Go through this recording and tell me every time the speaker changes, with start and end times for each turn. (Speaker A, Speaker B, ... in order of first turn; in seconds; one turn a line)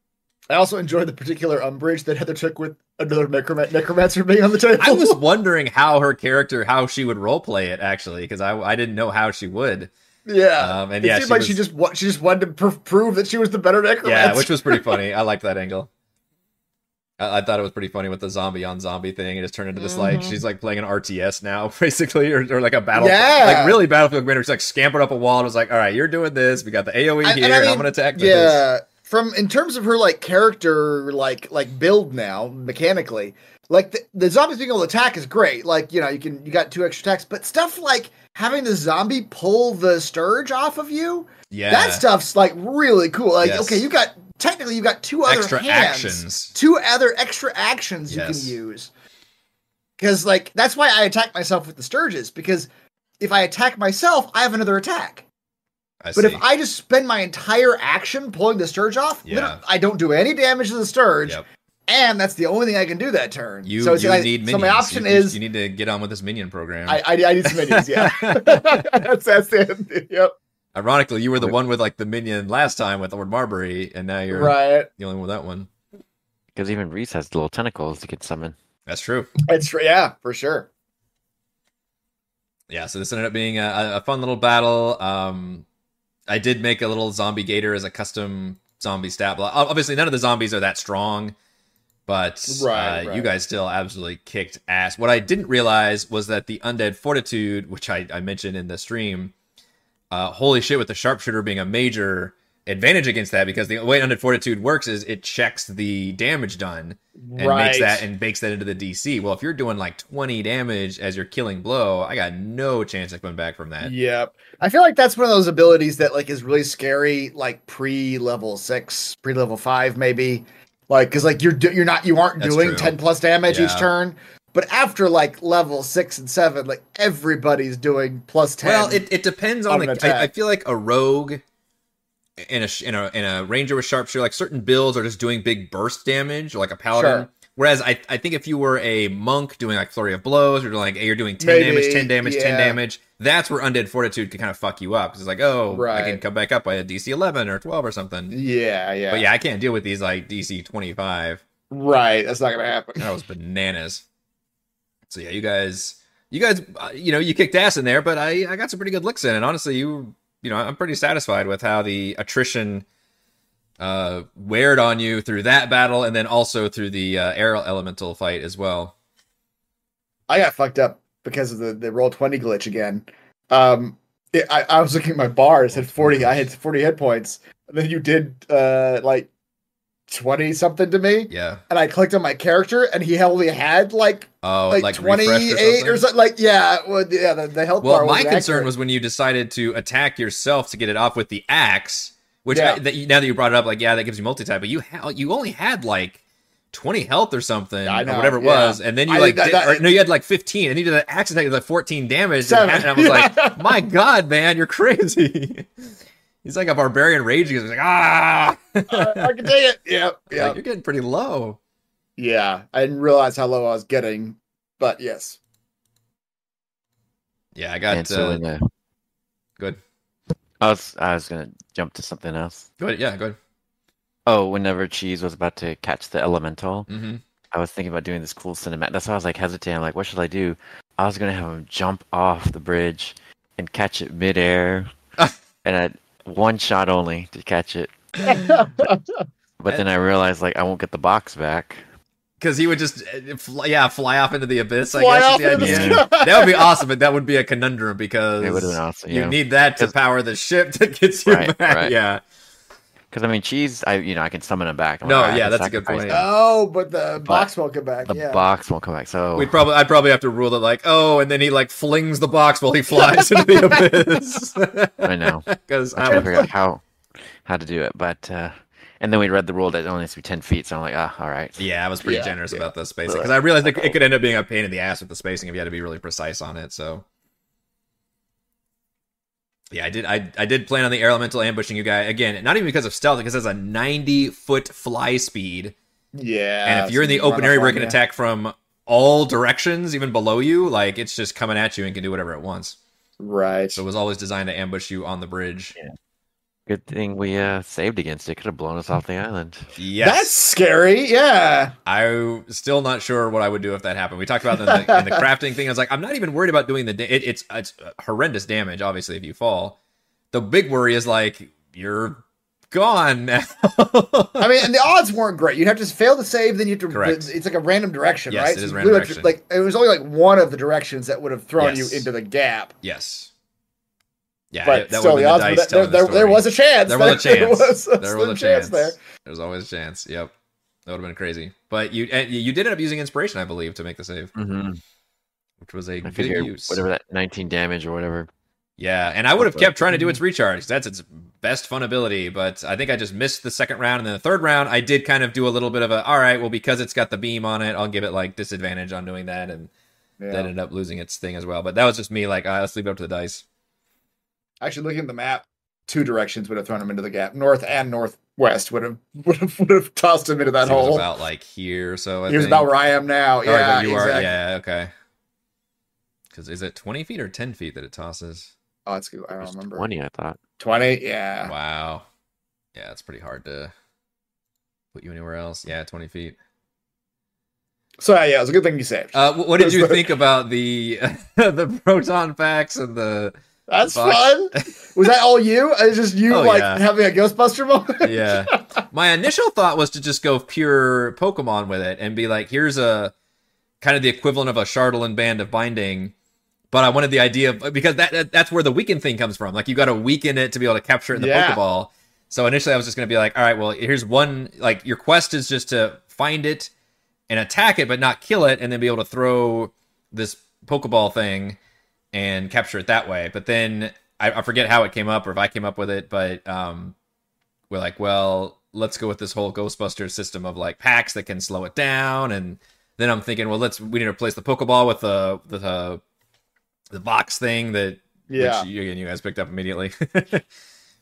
Speaker A: 0.5-5.2
Speaker B: 4.8-9.9
Speaker A: 10.3-15.0
Speaker B: 10.6-11.6
Speaker B: 14.0-15.9
Speaker B: 17.2-28.6
Speaker A: 19.8-20.4
Speaker A: 22.9-23.8
Speaker A: 27.2-48.9
Speaker B: 41.5-42.0
Speaker B: 43.4-43.8
Speaker B: 45.3-46.5
Speaker B: 48.1-48.6
Speaker A: 50.0-52.7
Speaker A: 53.2-55.3
Speaker B: 56.0-56.4
Speaker A: 56.2-65.4
Speaker B: 59.3-59.6
Speaker B: 63.6-68.8
Speaker A: 66.9-70.3
Speaker B: 70.7-75.7
Speaker A: 74.3-74.9
Speaker C: 76.5-78.6
Speaker B: 78.9-79.3
Speaker A: 79.5-80.7
Speaker B: 82.7-85.7
Speaker B: 86.3-91.4
Speaker B: 92.1-99.3
Speaker A: 92.5-93.3
Speaker B: 100.1-113.9
Speaker A: 107.3-108.0
Speaker A: 113.8-129.0
Speaker B: 122.4-123.0
Speaker B: 123.5-123.9
Speaker B: 128.6-131.4
Speaker A: 129.7-130.3
Speaker B: 132.5-148.3
Speaker A: 136.9-137.3
Speaker A: 141.4-142.8
Speaker A: 145.7-146.2
Speaker A: 148.3-149.2
Speaker B: 149.1-151.4
Speaker A: 151.7-153.1
Speaker B: 153.0-154.0
Speaker B: 155.1-162.9
Speaker B: 163.8-168.9
Speaker A: 170.3-179.3
Speaker B: 175.8-176.3
Speaker A: 180.1-188.7
Speaker B: 181.3-181.6
Speaker B: 184.4-186.0
Speaker B: 187.8-196.2
Speaker A: 192.5-192.8
Speaker B: 196.7-209.5
Speaker A: 197.9-199.8
Speaker A: 202.5-203.8
Speaker A: 208.9-210.6
Speaker B: 210.3-211.6
Speaker A: 212.2-215.4
Speaker B: 217.6-218.4
Speaker C: 217.9-218.7
Speaker C: 220.6-222.7
Speaker B: 222.8-223.4
Speaker C: 224.3-226.9
Speaker B: 226.9-227.2
Speaker C: 227.5-234.9
Speaker C: 235.6-238.3
Speaker B: 238.3-238.6
Speaker A: 238.3-239.0
Speaker C: 239.6-241.8
Speaker B: 242.4-252.2
Speaker A: 244.9-246.7
Speaker C: 245.6-246.0
Speaker C: 248.4-249.9
Speaker C: 251.3-251.9
Speaker C: 253.1-256.2
Speaker B: 255.0-256.3
Speaker A: 256.1-258.4
Speaker C: 257.2-257.5
Speaker C: 258.1-259.6
Speaker B: 259.4-266.4
Speaker A: 263.0-263.9
Speaker C: 265.0-271.7
Speaker A: 266.1-266.5
Speaker B: 271.6-277.1
Speaker A: 272.0-272.7
Speaker C: 273.1-274.0
Speaker B: 279.7-285.8
Speaker A: 286.1-288.0
Speaker B: 286.6-292.8
Speaker A: 293.2-293.8
Speaker B: 293.7-295.8
Speaker C: 296.7-299.8
Speaker B: 299.8-300.3
Speaker A: 300.0-301.8
Speaker B: 301.9-309.8
Speaker A: 304.6-305.2
Speaker B: 310.3-314.7
Speaker A: 314.4-322.7
Speaker B: 316.9-317.3
Speaker B: 318.3-319.3
Speaker B: 321.6-322.1
Speaker B: 322.8-323.3
Speaker B: 324.5-330.3
Speaker A: 324.6-329.0
Speaker B: 330.9-334.3
Speaker C: 334.4-334.8
Speaker B: 335.6-336.9
Speaker C: 336.0-338.3
Speaker B: 338.8-349.7
Speaker C: 339.4-340.2
Speaker A: 350.2-350.5
Speaker B: 350.3-353.4
Speaker A: 354.6-361.1
Speaker B: 360.6-362.7
Speaker A: 362.3-364.3
Speaker B: 363.4-364.9
Speaker B: 366.3-368.5
Speaker A: 368.9-369.9
Speaker C: 369.4-370.4
Speaker A: 370.6-371.5
Speaker B: 371.4-372.1
Speaker B: 372.8-373.7
Speaker B: 374.9-376.4
Speaker A: 378.0-380.0
Speaker B: 379.1-385.0
Speaker A: 383.7-388.6
Speaker B: 386.3-386.9
Speaker B: 388.0-393.1
Speaker B: 393.8-396.1
Speaker B: 396.7-406.7
Speaker A: 401.1-401.6
Speaker B: 407.3-411.6
Speaker B: 412.1-416.9
Speaker B: 417.7-426.0
Speaker B: 426.9-430.4
Speaker A: 428.3-428.7